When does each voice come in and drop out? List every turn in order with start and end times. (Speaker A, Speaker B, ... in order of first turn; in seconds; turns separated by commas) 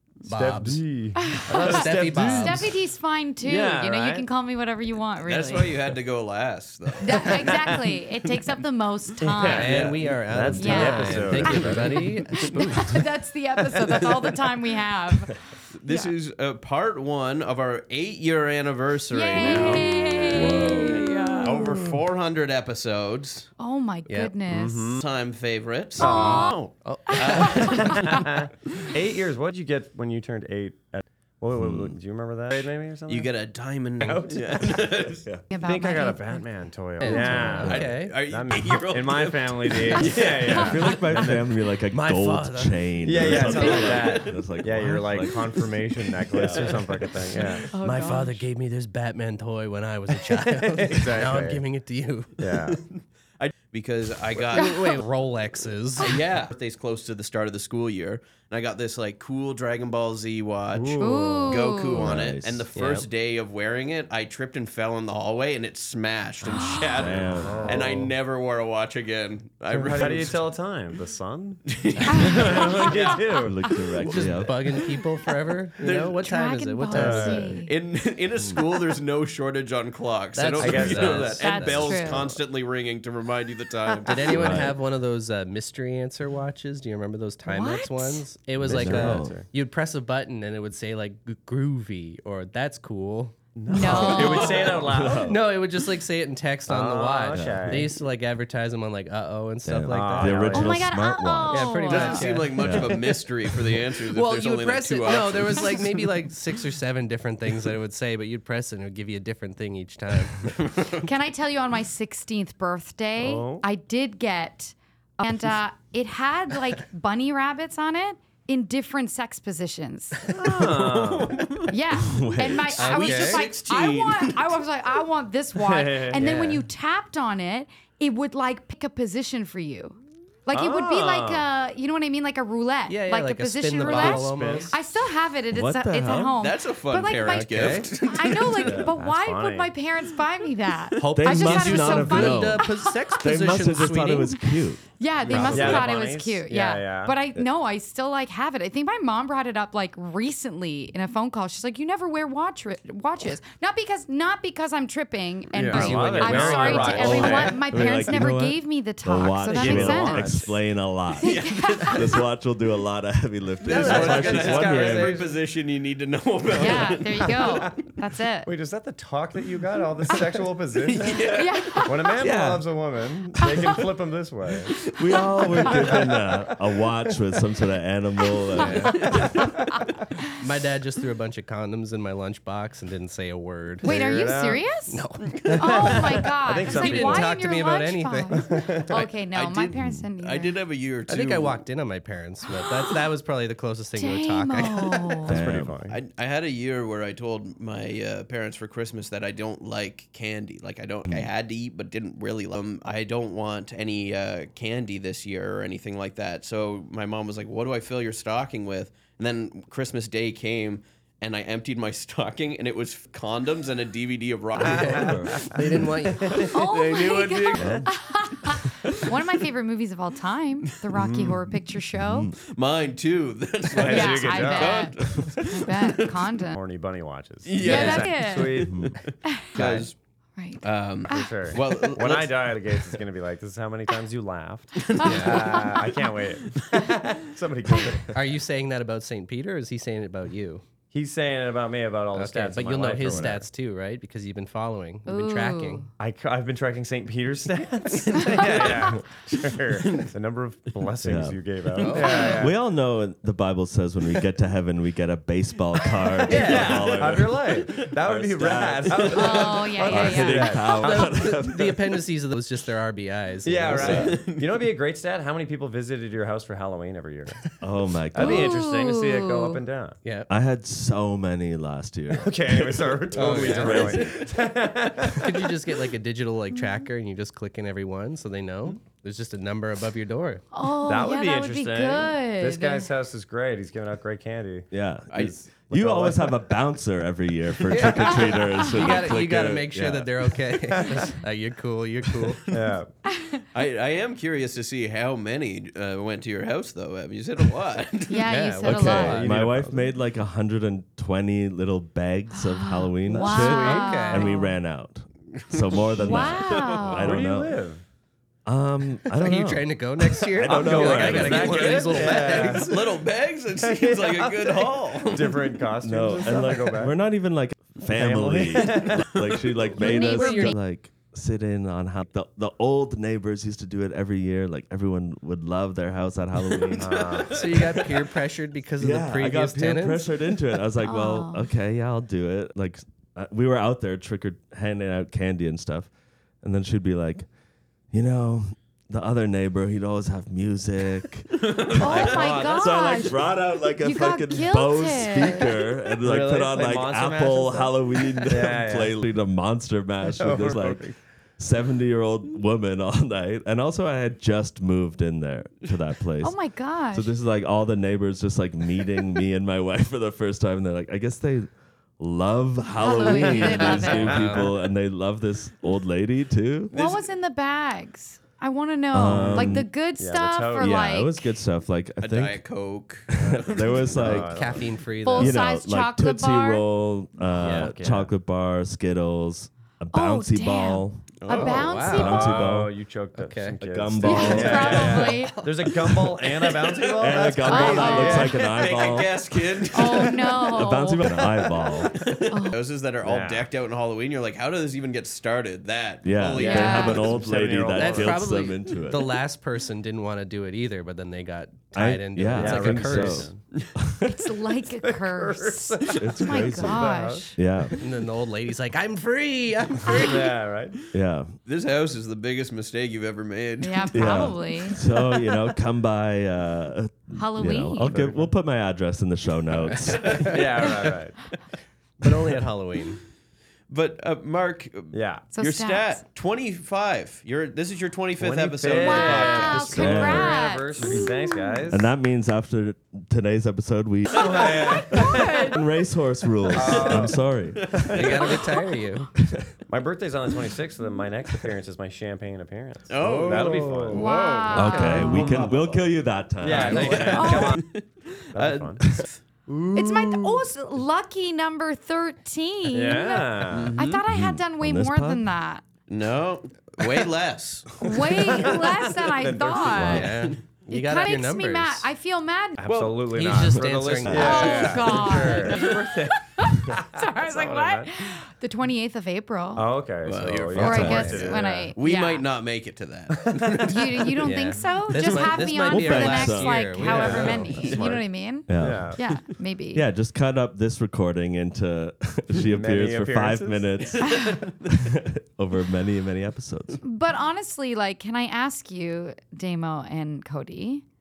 Speaker A: 0.2-2.7, Speaker B: 0.2-2.7, Speaker C: 1.2-5.8, Speaker B: 3.4-4.3, Speaker D: 5.2-8.5, Speaker C: 7.0-9.7, Speaker B: 7.2-7.6, Speaker B: 9.2-12.2, Speaker D: 9.4-10.0, Speaker A: 9.4-12.8, Speaker C: 10.5-16.1, Speaker D: 14.0-14.3, Speaker D: 15.8-23.5, Speaker C: 19.1-21.7, Speaker B: 19.4-19.9, Speaker C: 23.6-25.0, Speaker A: 24.1-24.3, Speaker B: 24.5-25.0, Speaker D: 25.0-27.9, Speaker C: 26.0-28.3, Speaker B: 26.0-26.6, Speaker A: 26.0-27.6, Speaker B: 27.3-33.3, Speaker E: 31.5-32.0, Speaker D: 33.1-35.2, Speaker B: 34.0-41.4, Speaker C: 35.5-36.4, Speaker A: 37.0-38.2, Speaker C: 37.1-37.5, Speaker E: 37.5-37.8, Speaker D: 37.6-40.6, Speaker C: 40.0-41.0, Speaker E: 40.5-45.5, Speaker A: 41.9-43.6, Speaker B: 43.0-47.7, Speaker C: 43.4-44.2, Speaker E: 46.4-47.0, Speaker C: 47.7-48.4, Speaker A: 47.8-52.4, Speaker B: 50.3-51.6, Speaker B: 52.4-52.8, Speaker D: 52.5-55.0, Speaker A: 54.5-56.2, Speaker C: 54.6-55.0, Speaker D: 56.0-70.5, Speaker B: 60.7-61.6, Speaker C: 61.0-62.1, Speaker E: 61.9-62.7, Speaker B: 62.7-63.1, Speaker C: 66.4-67.0, Speaker E: 67.0-68.0, Speaker B: 67.0-68.1, Speaker B: 69.7-73.6, Speaker D: 71.7-72.8, Speaker C: 72.1-73.7, Speaker E: 73.4-74.6, Speaker D: 74.0-76.2, Speaker A: 74.1-77.6, Speaker C: 76.2-77.7, Speaker B: 76.9-77.5, Speaker D: 77.6-84.3, Speaker A: 80.3-82.1, Speaker B: 80.6-82.3, Speaker C: 81.4-82.2, Speaker A: 84.0-93.3, Speaker E: 84.3-84.8, Speaker C: 87.4-88.2, Speaker B: 88.6-89.5, Speaker E: 88.6-89.4, Speaker B: 93.5-95.5, Speaker C: 93.7-94.8, Speaker E: 93.8-94.2, Speaker A: 93.9-94.3, Speaker D: 94.2-94.8, Speaker E: 94.8-95.4, Speaker A: 95.2-100.6, Speaker B: 96.7-97.9, Speaker E: 97.3-97.9, Speaker E: 99.6-101.8, Speaker B: 99.9-100.8, Speaker C: 100.5-102.2, Speaker A: 101.5-102.5, Speaker B: 101.5-103.2, Speaker D: 101.9-105.9, Speaker E: 102.6-103.0, Speaker A: 104.1-110.5, Speaker D: 110.6-111.0, Speaker C: 111.0-120.2, Speaker B: 113.2-113.6, Speaker B: 120.3-121.5, Speaker D: 120.4-121.7, Speaker C: 121.7-143.2, Speaker E: 121.9-122.8, Speaker A: 122.8-123.5, Speaker D: 122.8-124.6, Speaker B: 125.5-126.6, Speaker A: 126.2-126.6, Speaker B: 130.5-131.5, Speaker A: 132.9-134.7, Speaker B: 133.8-134.7, Speaker E: 135.5-136.4, Speaker D: 136.4-138.8, Speaker A: 137.2-137.9, Speaker E: 138.7-138.9, Speaker B: 138.7-139.7, Speaker A: 141.0-144.4, Speaker E: 141.1-142.7, Speaker E: 143.2-144.8, Speaker C: 145.0-160.5, Speaker A: 145.3-145.9, Speaker B: 145.3-147.2, Speaker B: 155.6-158.2, Speaker A: 155.6-157.3, Speaker D: 156.7-157.4, Speaker E: 157.0-165.2, Speaker B: 159.5-160.3, Speaker C: 161.2-162.2, Speaker D: 161.2-162.2, Speaker D: 163.6-167.8, Speaker A: 163.7-165.2, Speaker B: 164.0-164.8, Speaker C: 166.6-168.5, Speaker B: 166.7-167.6, Speaker B: 168.4-174.8, Speaker D: 170.8-171.8, Speaker C: 171.3-172.2, Speaker E: 172.2-172.7, Speaker C: 173.4-173.8, Speaker E: 174.9-179.2, Speaker C: 175.4-176.0, Speaker B: 175.6-176.6, Speaker A: 178.6-179.1, Speaker C: 178.8-179.8, Speaker D: 178.9-179.3, Speaker B: 179.3-179.6, Speaker A: 180.4-183.9, Speaker C: 183.8-190.6, Speaker B: 183.8-184.7, Speaker A: 184.9-185.9, Speaker D: 185.3-185.9, Speaker B: 185.4-187.3, Speaker A: 186.6-188.6, Speaker B: 188.5-189.0, Speaker D: 188.9-191.6, Speaker E: 189.8-190.0, Speaker A: 191.1-195.2, Speaker C: 192.4-193.0, Speaker C: 193.9-195.3, Speaker B: 195.2-196.0, Speaker E: 195.3-195.8, Speaker D: 195.9-215.5, Speaker E: 201.1-201.3, Speaker E: 214.6-215.9, Speaker B: 214.6-216.5, Speaker A: 215.4-216.3, Speaker D: 216.3-217.8, Speaker C: 216.4-222.3, Speaker E: 217.5-217.9, Speaker B: 220.9-221.4, Speaker E: 221.9-222.4, Speaker D: 222.4-226.3, Speaker B: 223.7-224.9, Speaker C: 223.8-226.6, Speaker E: 225.1-225.3, Speaker B: 226.5-228.9, Speaker D: 227.4-229.9, Speaker C: 227.6-228.7, Speaker E: 228.7-228.9, Speaker C: 229.2-229.5, Speaker B: 229.6-229.9, Speaker C: 230.4-231.3, Speaker D: 230.6-233.0, Speaker B: 231.1-238.2, Speaker D: 234.8-235.9, Speaker A: 235.0-235.4, Speaker C: 235.0-236.0, Speaker A: 238.1-240.6, Speaker B: 240.9-243.5, Speaker A: 242.1-245.8, Speaker E: 243.0-243.4, Speaker C: 245.1-245.9, Speaker B: 246.0-252.6, Speaker D: 248.3-248.7, Speaker E: 251.0-251.4, Speaker D: 251.8-252.3, Speaker A: 251.8-252.2, Speaker E: 252.1-261.8, Speaker D: 256.2-257.9, Speaker B: 256.2-261.1, Speaker D: 258.9-259.7, Speaker C: 259.1-260.8, Speaker A: 260.7-264.2, Speaker B: 263.4-267.4, Speaker E: 263.7-264.1, Speaker D: 263.8-264.5, Speaker E: 267.6-268.6, Speaker B: 268.1-270.0, Speaker C: 268.2-269.6, Speaker A: 270.0-270.3, Speaker E: 270.3-274.2, Speaker B: 272.1-275.7, Speaker A: 273.1-274.1, Speaker A: 275.2-280.4, Speaker C: 280.5-282.9, Speaker B: 280.8-286.4, Speaker E: 284.7-290.3, Speaker D: 285.1-285.4, Speaker A: 287.7-292.5, Speaker C: 288.5-288.9, Speaker B: 290.7-291.1, Speaker B: 292.5-292.9, Speaker D: 293.5-298.3, Speaker C: 298.1-299.2, Speaker A: 298.3-299.3, Speaker E: 298.6-307.6, Speaker B: 299.0-299.9, Speaker C: 302.3-304.6, Speaker A: 303.1-304.3, Speaker D: 305.4-306.8, Speaker C: 306.0-307.2, Speaker B: 306.9-307.8, Speaker E: 308.4-309.7, Speaker A: 309.2-312.9, Speaker E: 310.4-311.6, Speaker B: 310.4-312.7, Speaker D: 311.1-315.6, Speaker B: 313.6-316.9, Speaker E: 315.8-326.9, Speaker B: 317.9-319.1, Speaker C: 319.8-320.5, Speaker A: 319.9-320.5, Speaker D: 326.6-328.1, Speaker B: 326.8-327.5, Speaker A: 327.3-330.1, Speaker E: 328.8-335.9, Speaker C: 330.8-331.5, Speaker E: 336.4-337.2, Speaker E: 337.9-350.9, Speaker D: 341.4-342.1, Speaker C: 341.8-343.2, Speaker B: 342.0-342.7, Speaker C: 343.8-345.7, Speaker B: 346.0-349.0, Speaker B: 350.1-350.9, Speaker E: 351.4-356.4, Speaker C: 356.2-357.1, Speaker E: 356.9-366.7, Speaker C: 362.8-364.2, Speaker A: 363.4-364.5, Speaker B: 364.0-364.5, Speaker D: 366.7-367.1, Speaker C: 366.7-371.3, Speaker E: 368.9-369.7, Speaker B: 369.0-370.8, Speaker E: 370.6-372.4, Speaker D: 372.0-374.2, Speaker E: 373.1-374.6, Speaker B: 373.1-374.9, Speaker A: 374.1-375.4, Speaker C: 375.0-376.6, Speaker E: 375.1-381.2, Speaker B: 377.3-378.1, Speaker A: 377.4-377.7, Speaker C: 379.9-382.4, Speaker D: 381.2-381.7, Speaker A: 381.3-382.3, Speaker B: 381.3-388.9, Speaker E: 381.9-382.7, Speaker A: 383.1-383.6, Speaker E: 383.6-385.2, Speaker C: 384.0-385.4, Speaker D: 386.1-390.4, Speaker E: 387.0-389.2, Speaker C: 387.4-388.3, Speaker C: 389.7-391.2, Speaker E: 390.0-392.0, Speaker B: 391.1-391.9, Speaker D: 391.9-397.2, Speaker C: 392.3-392.6, Speaker B: 393.0-393.5, Speaker E: 396.0-399.2, Speaker B: 396.4-398.5, Speaker C: 396.4-397.0, Speaker A: 397.7-403.3, Speaker E: 401.7-404.1, Speaker B: 402.3-403.4, Speaker C: 404.0-407.4, Speaker B: 404.8-407.8, Speaker E: 405.9-407.8, Speaker A: 407.8-410.4, Speaker B: 409.9-410.7, Speaker E: 410.9-411.3, Speaker D: 411.4-414.4, Speaker C: 413.6-414.8, Speaker E: 413.9-420.4, Speaker C: 417.1-417.9, Speaker B: 417.8-418.3, Speaker A: 419.7-420.2, Speaker D: 420.0-420.6, Speaker B: 420.1-421.2, Speaker A: 422.0-423.0, Speaker D: 423.7-429.9, Speaker B: 424.9-425.2, Speaker C: 425.3-426.0, Speaker B: 428.2-431.9, Speaker C: 428.7-431.4, Speaker E: 429.7-430.4, Speaker E: 431.7-438.2, Speaker B: 434.1-435.3, Speaker C: 434.7-435.6, Speaker B: 436.5-437.2, Speaker D: 436.7-437.0, Speaker D: 437.6-438.0, Speaker B: 437.7-438.4, Speaker A: 437.9-439.1, Speaker E: 439.2-439.5, Speaker B: 439.7-444.1, Speaker D: 442.9-445.9, Speaker A: 443.0-443.9, Speaker C: 443.9-445.2, Speaker E: 444.5-447.2, Speaker B: 444.8-445.5, Speaker B: 446.4-447.6, Speaker D: 446.4-449.2, Speaker A: 446.6-447.2, Speaker C: 447.1-447.6, Speaker B: 448.3-448.8, Speaker B: 449.5-450.3, Speaker C: 449.7-455.6, Speaker B: 452.7-453.7, Speaker D: 453.5-454.0, Speaker E: 454.1-455.3, Speaker D: 455.9-457.8, Speaker C: 457.8-460.1, Speaker B: 458.0-459.9, Speaker E: 459.7-460.1, Speaker A: 459.9-461.9, Speaker D: 460.0-460.4, Speaker C: 460.7-462.6, Speaker B: 462.6-467.9, Speaker D: 462.6-463.0, Speaker A: 463.1-465.5, Speaker C: 464.1-469.6, Speaker B: 469.5-471.7, Speaker D: 470.0-474.1, Speaker E: 470.6-471.3, Speaker C: 470.6-472.2, Speaker B: 473.2-474.1, Speaker C: 473.6-479.8, Speaker A: 474.2-477.7, Speaker E: 475.7-476.6, Speaker B: 476.8-478.0, Speaker D: 477.5-478.0, Speaker E: 478.5-479.0, Speaker B: 478.6-479.0, Speaker E: 479.7-486.8, Speaker B: 482.4-484.1, Speaker D: 484.0-484.7, Speaker C: 486.8-490.8